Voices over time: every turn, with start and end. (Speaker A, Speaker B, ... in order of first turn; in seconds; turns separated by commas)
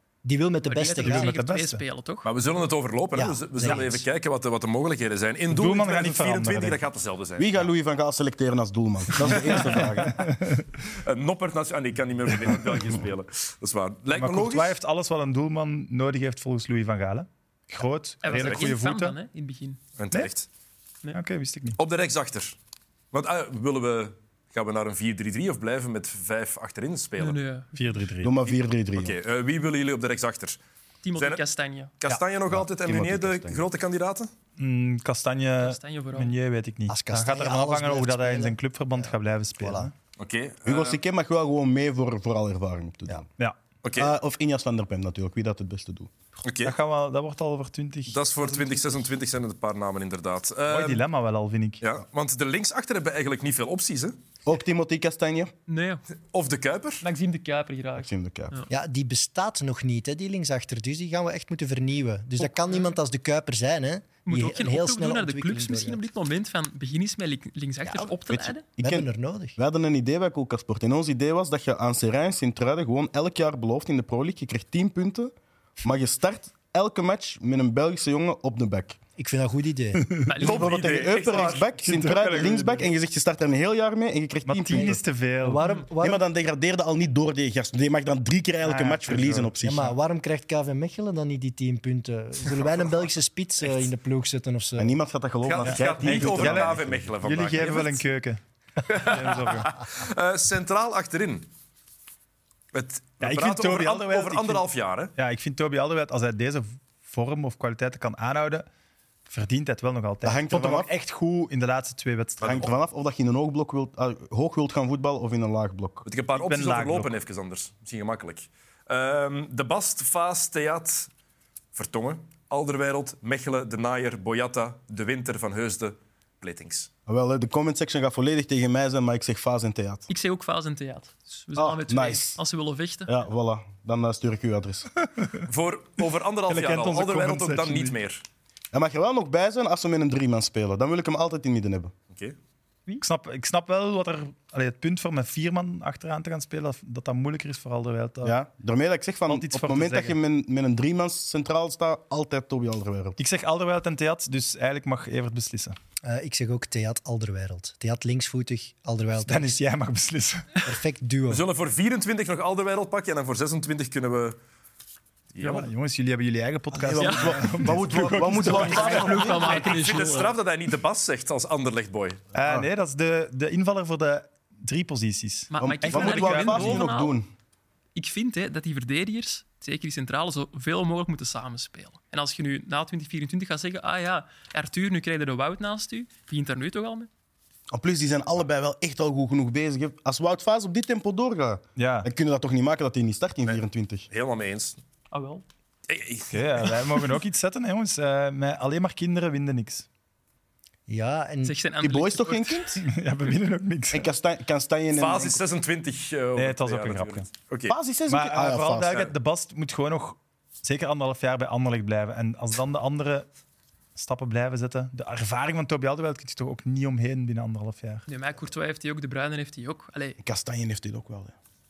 Speaker A: 0.2-1.3, Speaker B: 0.7-2.3, Speaker C: 1.0-1.8, Speaker D: 2.2-7.7, Speaker A: 3.1-4.0, Speaker C: 5.5-6.8, Speaker E: 7.4-10.3, Speaker C: 9.9-10.8, Speaker D: 10.9-14.8, Speaker C: 14.1-19.1, Speaker B: 18.2-19.8, Speaker D: 18.3-18.7, Speaker D: 20.0-20.5, Speaker C: 21.1-21.8, Speaker D: 21.8-22.6, Speaker D: 23.1-27.4, Speaker B: 27.2-28.0, Speaker C: 27.7-28.3, Speaker E: 28.2-29.1, Speaker D: 28.5-30.6, Speaker B: 31.0-31.9, Speaker D: 31.2-31.4, Speaker D: 32.0-34.3, Speaker E: 32.5-33.6, Speaker C: 34.6-39.9, Speaker B: 35.6-36.3, Speaker A: 36.9-39.9, Speaker D: 40.2-41.0, Speaker E: 40.6-43.3, Speaker D: 43.8-44.1, Speaker E: 43.9-46.1, Speaker D: 46.4-46.7, Speaker C: 46.6-48.2, Speaker D: 48.1-51.0, Speaker C: 50.7-51.8, Speaker D: 51.8-54.2, Speaker E: 54.4-55.5, Speaker B: 55.7-56.0, Speaker D: 56.3-57.0, Speaker B: 57.0-58.7, Speaker E: 58.0-58.6, Speaker A: 58.7-66.0, Speaker B: 62.4-62.9, Speaker B: 64.3-68.6, Speaker A: 67.8-68.1, Speaker E: 68.3-79.0, Speaker A: 68.8-69.6, Speaker A: 79.2-80.2, Speaker B: 80.3-80.7, Speaker E: 80.4-85.0, Speaker D: 80.4-81.7, Speaker C: 81.8-82.9, Speaker C: 84.4-85.6, Speaker A: 84.7-86.2, Speaker E: 86.0-89.9, Speaker C: 88.6-89.5, Speaker A: 89.6-95.0, Speaker E: 94.8-97.1, Speaker D: 95.4-98.0, Speaker C: 95.6-99.7, Speaker D: 98.9-101.5, Speaker D: 102.7-105.1, Speaker C: 103.2-108.7, Speaker C: 109.3-112.7, Speaker E: 110.2-110.9, Speaker D: 112.4-112.7, Speaker E: 112.4-116.1, Speaker D: 116.0-121.1, Speaker C: 116.3-117.2, Speaker D: 121.7-126.9, Speaker E: 127.0-130.1, Speaker B: 130.1-133.1, Speaker E: 131.6-132.4, Speaker E: 133.1-134.9, Speaker D: 135.4-138.2, Speaker C: 136.5-138.0, Speaker E: 138.7-141.9, Speaker D: 142.1-142.3, Speaker C: 143.0-148.3, Speaker E: 148.2-153.2, Speaker C: 149.3-150.2, Speaker C: 153.2-155.8, Speaker A: 156.0-159.6, Speaker C: 159.2-160.4, Speaker A: 160.6-161.4, Speaker D: 161.3-164.4, Speaker D: 165.3-165.7, Speaker C: 165.4-169.0, Speaker E: 166.7-169.7, Speaker B: 167.0-167.4, Speaker B: 168.2-170.3, Speaker D: 168.5-172.2, Speaker C: 172.3-176.9, Speaker B: 175.5-177.1, Speaker E: 175.6-177.3, Speaker B: 177.9-187.1, Speaker E: 187.7-194.1, Speaker C: 191.8-192.1, Speaker D: 193.4-194.8, Speaker B: 195.1-195.4, Speaker D: 195.9-196.8, Speaker C: 196.3-199.8, Speaker A: 200.9-201.6, Speaker B: 201.4-202.8, Speaker E: 201.8-202.8, Speaker C: 202.8-204.1, Speaker E: 203.9-205.4, Speaker D: 204.9-207.8, Speaker C: 206.3-207.3, Speaker E: 207.7-209.0, Speaker C: 208.1-213.3, Speaker C: 213.9-218.1, Speaker B: 218.1-220.2, Speaker E: 220.2-221.3